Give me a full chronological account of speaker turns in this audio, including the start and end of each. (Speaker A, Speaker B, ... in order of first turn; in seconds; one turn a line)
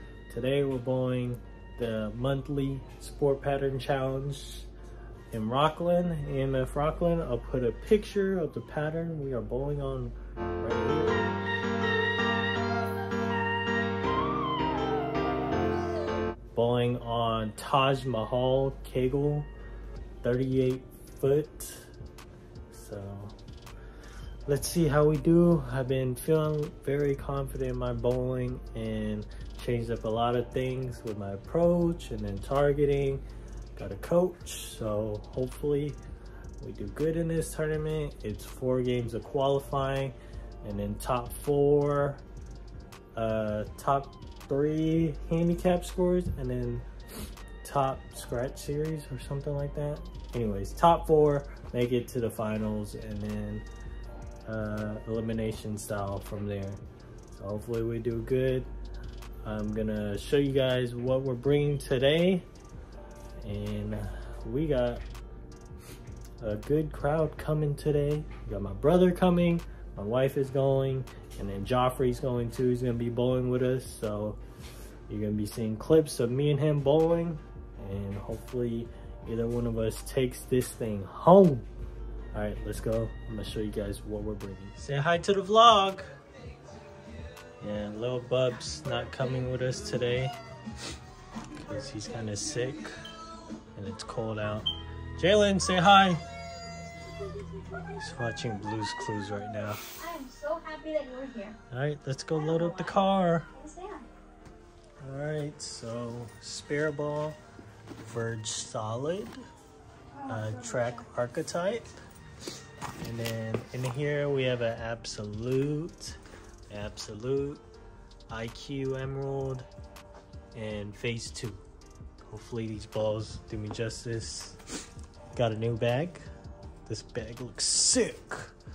Speaker A: 0.3-4.7
Speaker A: 5.3-11.2
Speaker A: 16.5-19.5
Speaker A: 20.2-21.9
Speaker A: 22.7-23.4
Speaker A: 24.5-33.2
Speaker A: 33.8-36.0
Speaker A: 36.6-42.2
Speaker A: 43.1-46.9
Speaker A: 47.6-53.7
Speaker A: 54.5-56.8
Speaker A: 57.3-58.7
Speaker A: 59.4-62.5
Speaker A: 63.4-65.0
Speaker A: 66.4-74.4
Speaker A: 75.1-81.7
Speaker A: 82.3-86.1
Speaker A: 87.6-90.3
Speaker A: 91.5-92.9
Speaker A: 93.8-96.2
Speaker B: 97.3-97.8
Speaker A: 97.8-99.9
Speaker B: 99.9-101.6
Speaker A: 101.7-103.5
Speaker B: 102.4-102.9
Speaker B: 103.5-104.1
Speaker A: 105.0-107.4
Speaker A: 108.0-109.4
Speaker B: 110.1-111.0
Speaker A: 110.3-111.9
Speaker A: 113.0-116.2
Speaker A: 116.7-117.6
Speaker A: 118.3-119.7
Speaker A: 120.5-121.6
Speaker A: 122.3-124.6
Speaker A: 125.3-126.2
Speaker A: 126.8-128.5